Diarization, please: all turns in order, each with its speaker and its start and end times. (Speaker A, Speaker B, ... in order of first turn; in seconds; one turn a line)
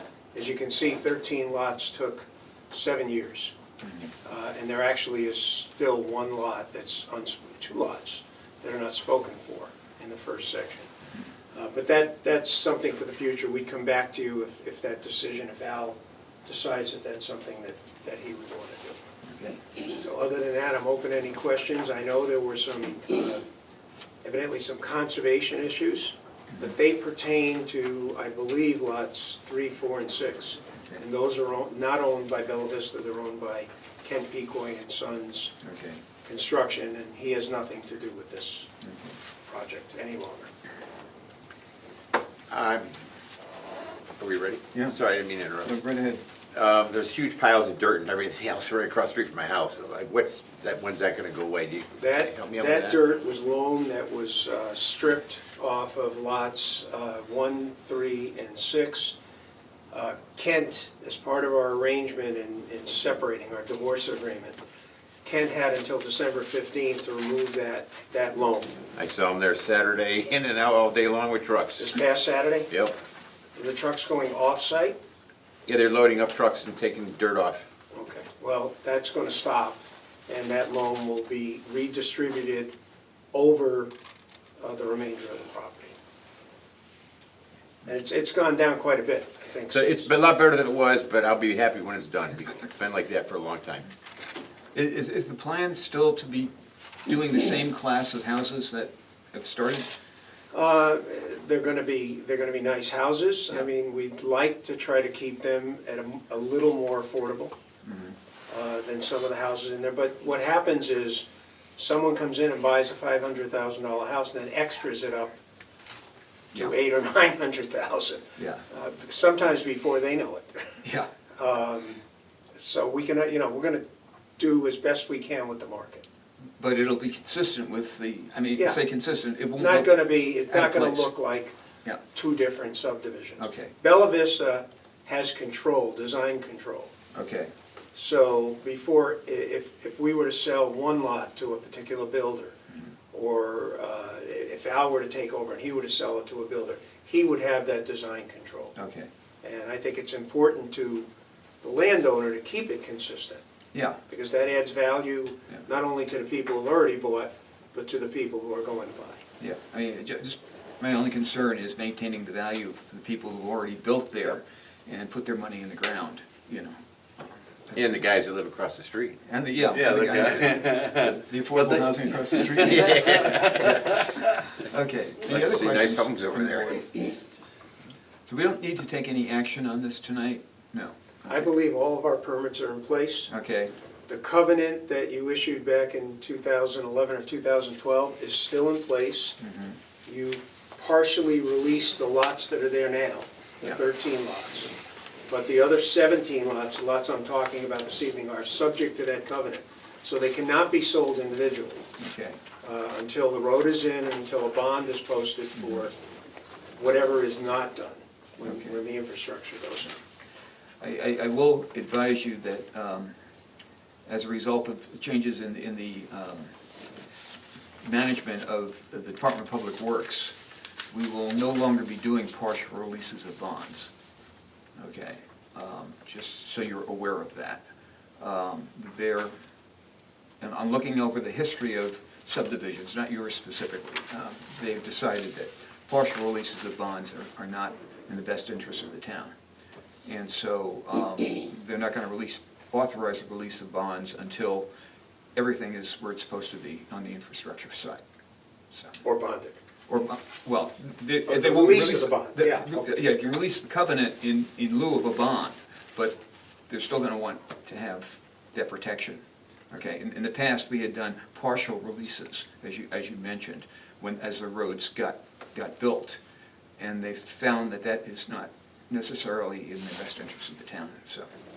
Speaker A: 0.3-3.5
Speaker A: 4.2-10.9
Speaker A: 11.5-19.0
Speaker B: 19.3-19.6
Speaker A: 19.8-23.4
Speaker A: 24.2-35.6
Speaker B: 35.6-36.0
Speaker A: 36.2-38.7
Speaker B: 38.8-39.1
Speaker A: 39.5-40.5
Speaker C: 42.5-43.1
Speaker C: 44.2-45.7
Speaker B: 45.6-46.2
Speaker C: 46.5-53.0
Speaker A: 52.0-59.2
Speaker A: 59.9-64.6
Speaker A: 65.2-68.8
Speaker C: 69.0-71.9
Speaker A: 71.8-72.7
Speaker A: 73.5-75.0
Speaker C: 75.7-77.7
Speaker A: 77.9-82.7
Speaker A: 83.3-83.9
Speaker A: 84.6-86.0
Speaker A: 87.8-90.1
Speaker C: 89.7-93.9
Speaker B: 94.7-96.5
Speaker B: 97.1-99.9
Speaker A: 100.5-107.5
Speaker B: 107.8-108.2
Speaker A: 108.5-111.3
Speaker A: 111.8-115.3
Speaker A: 116.5-120.8
Speaker B: 118.4-118.6
Speaker B: 120.8-121.1
Speaker A: 121.4-122.0
Speaker A: 122.6-123.8
Speaker A: 124.4-126.0
Speaker B: 126.6-131.1
Speaker A: 129.6-131.6
Speaker A: 132.1-136.9
Speaker B: 133.4-133.7
Speaker B: 137.1-137.5
Speaker A: 137.9-142.6
Speaker A: 143.1-148.8
Speaker B: 148.8-149.1
Speaker A: 149.4-151.1
Speaker A: 151.6-153.4
Speaker B: 153.7-154.0
Speaker A: 154.1-159.2
Speaker B: 159.4-168.1
Speaker C: 167.8-171.8
Speaker B: 169.3-174.0
Speaker C: 172.4-174.3
Speaker B: 174.6-176.8
Speaker C: 175.2-176.9
Speaker B: 178.3-180.9
Speaker A: 181.3-183.3
Speaker B: 183.3-183.7
Speaker A: 184.1-189.4
Speaker B: 189.4-189.8
Speaker A: 190.1-194.7
Speaker A: 195.3-201.9
Speaker B: 202.0-202.4
Speaker A: 202.6-205.9
Speaker A: 206.8-210.0
Speaker B: 208.4-208.7
Speaker B: 210.8-213.1
Speaker B: 214.1-216.5
Speaker B: 217.8-220.4
Speaker B: 220.9-223.9
Speaker B: 224.8-227.6
Speaker B: 228.2-229.3
Speaker B: 230.4-239.3
Speaker B: 240.1-244.7
Speaker B: 245.4-248.0
Speaker B: 248.7-249.0
Speaker A: 249.0-249.6
Speaker B: 249.9-256.2
Speaker A: 251.3-252.9
Speaker B: 256.7-266.2
Speaker B: 266.8-271.3